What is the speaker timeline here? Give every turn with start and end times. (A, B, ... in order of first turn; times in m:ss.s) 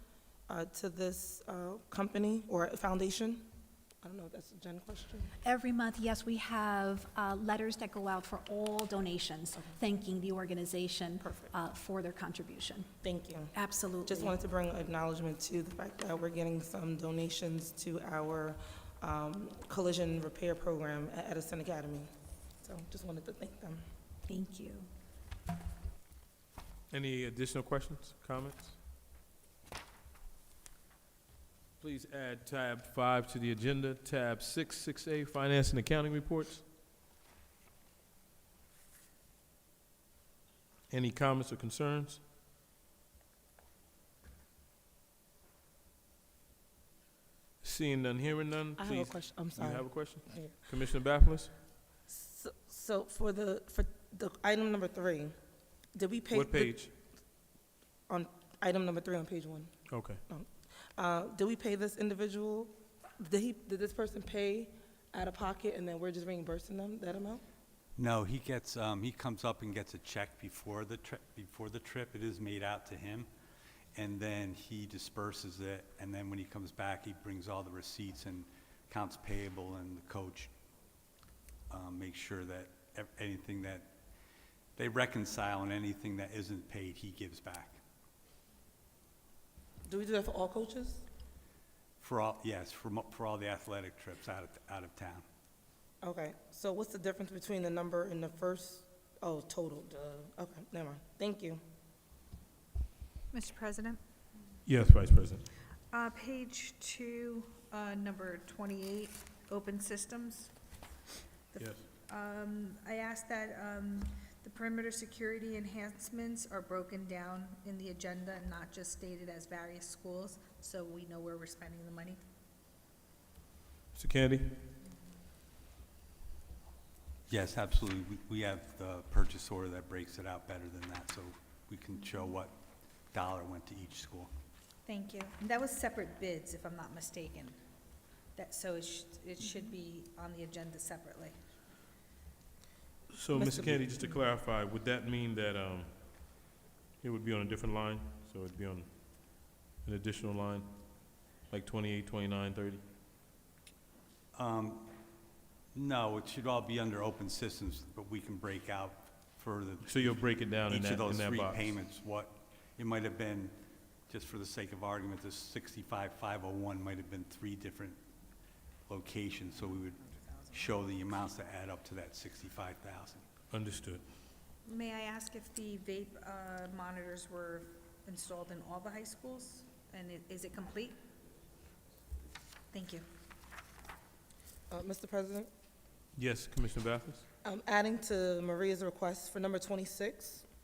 0:00.5-0:03.4 A
0:04.0-0:05.3 A
0:05.4-0:12.9 B
0:13.0-0:22.1 A
0:13.5-0:14.3 B
0:22.6-0:23.8 A
0:24.3-0:24.9 B
0:26.9-0:28.8 C
0:31.8-0:36.6 C
0:40.9-0:42.2 C
0:47.6-0:51.5 C
0:48.8-0:50.5 A
0:52.1-0:55.4 A
0:55.9-0:56.7 A
0:56.3-0:56.9 C
0:58.1-0:59.7 A
0:59.9-1:00.2 C
1:00.3-1:07.4 A
1:08.0-1:13.3 D
1:13.9-1:20.5 D
1:21.7-1:23.9 D
1:24.8-1:27.8 D
1:29.8-1:31.0 A
1:32.0-1:35.2 D
1:36.0-1:41.6 A
1:43.3-1:44.0 E
1:44.7-1:45.4 C
1:45.9-1:50.5 E
1:51.6-1:51.8 C
1:52.1-2:02.2 E
2:03.9-2:04.6 C
2:07.3-2:12.5 D
2:13.1-2:14.3 D
2:14.8-2:17.6 E
2:18.3-2:21.3 E
2:23.1-2:26.4 C
2:23.3-2:24.2 A
2:27.0-2:32.8 C
2:34.3-2:34.9 D
2:35.7-2:43.5 D
2:39.8-2:41.8 C
2:44.1-2:48.0 D
2:48.9-2:53.2 D
2:50.0-2:50.8 E
2:53.5-2:54.0 C
2:54.6-3:01.0 E
3:02.7-3:03.0 E
3:04.7-3:05.5 A
3:06.2-3:07.2 C
3:07.4-3:10.4 A